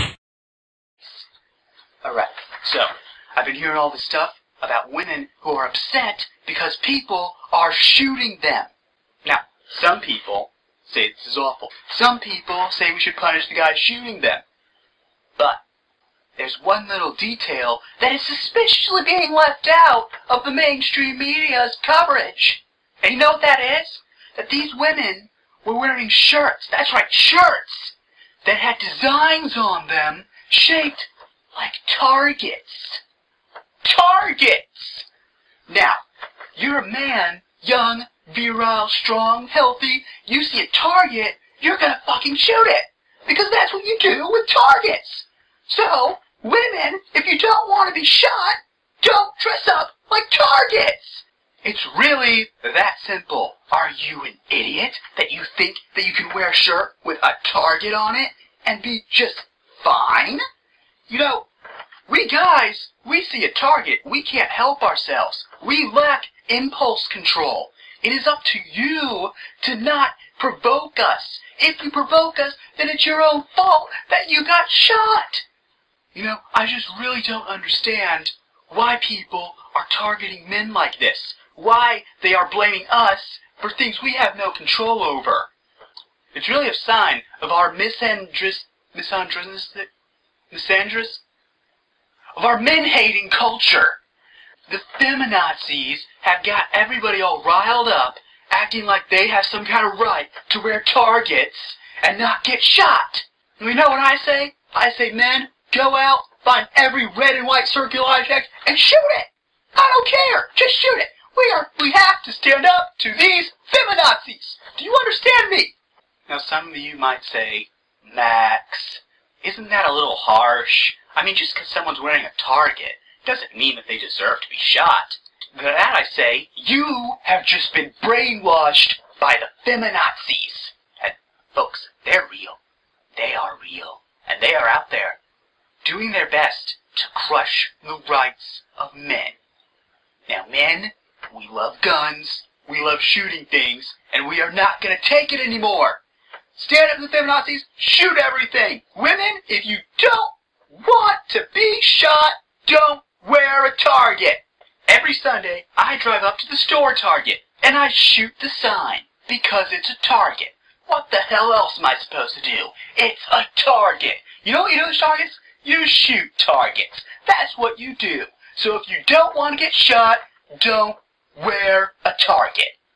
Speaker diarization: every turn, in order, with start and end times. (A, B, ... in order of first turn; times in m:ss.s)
0:02.0-0:08.7 A
0:09.2-0:14.5 A
0:15.4-0:15.6 A
0:16.4-0:33.0 A
0:33.8-0:35.1 A
0:35.7-0:36.0 A
0:36.6-1:00.4 A
1:01.1-1:01.5 A
1:02.1-1:15.4 A
1:16.1-1:25.5 A
1:26.3-1:29.9 A
1:30.5-1:31.2 A
1:32.4-1:34.0 A
1:34.7-1:55.8 A
1:56.3-2:12.6 A
2:13.2-2:15.2 A
2:15.8-2:19.4 A
2:20.3-2:26.0 A
2:26.6-2:52.7 A